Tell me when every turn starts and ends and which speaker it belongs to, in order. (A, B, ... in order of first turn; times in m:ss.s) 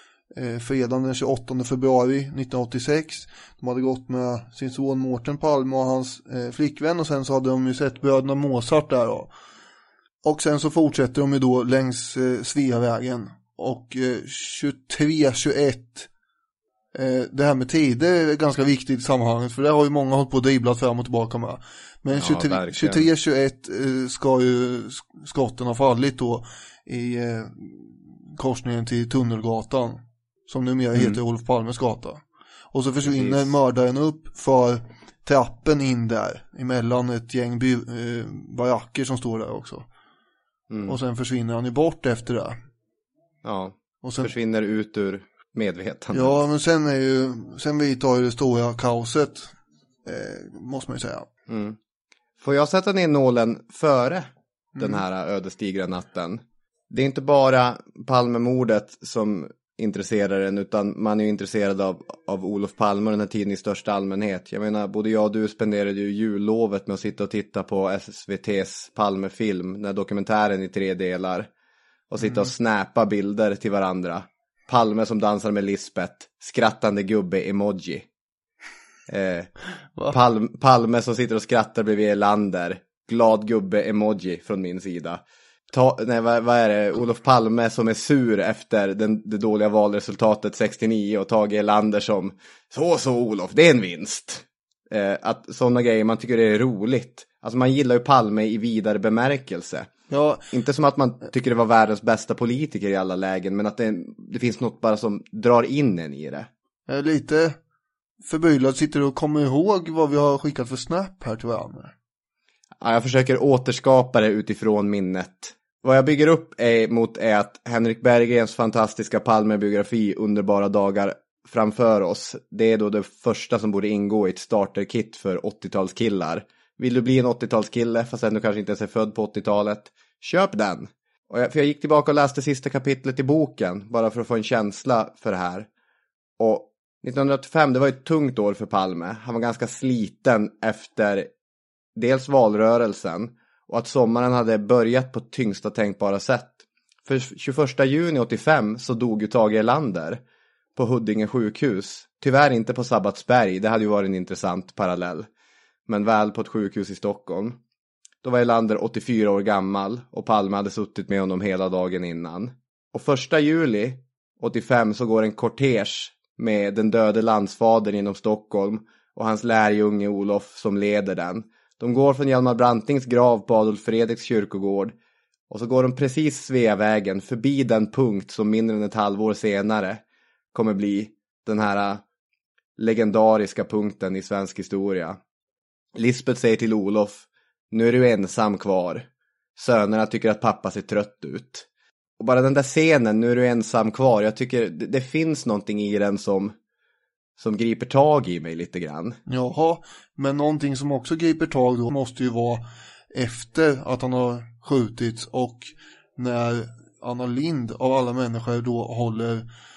0:00.3-0:09.3 A
0:10.2-0:16.1 A
0:17.0-0:39.8 A
0:22.1-0:23.1 B
0:30.9-0:31.2 B
0:33.1-0:33.5 B
0:40.7-0:41.0 B
0:40.9-0:42.6 A
0:43.4-0:46.4 B
0:44.0-0:44.3 A
0:46.1-0:49.5 A
0:50.0-0:51.3 A
0:51.5-0:51.8 B
0:52.4-1:11.5 B
0:54.8-0:55.0 A
1:12.1-1:18.0 B
1:12.2-1:12.5 A
1:19.1-1:19.5 B
1:20.1-1:39.9 B
1:40.1-1:40.4 A
1:40.5-1:46.5 B
1:46.9-1:47.6 A
1:48.2-1:51.9 A
1:52.8-2:15.7 B
2:16.4-2:21.3 B
2:22.0-2:30.2 B
2:30.8-2:35.3 B
2:35.9-2:37.6 B
2:38.2-2:55.0 B
2:55.5-3:00.0 B
3:00.5-3:02.0 B
3:02.8-3:05.2 B
3:06.0-3:09.1 B
3:09.6-3:11.7 B
3:12.2-3:16.5 B
3:17.4-3:19.2 B
3:19.3-3:29.5 A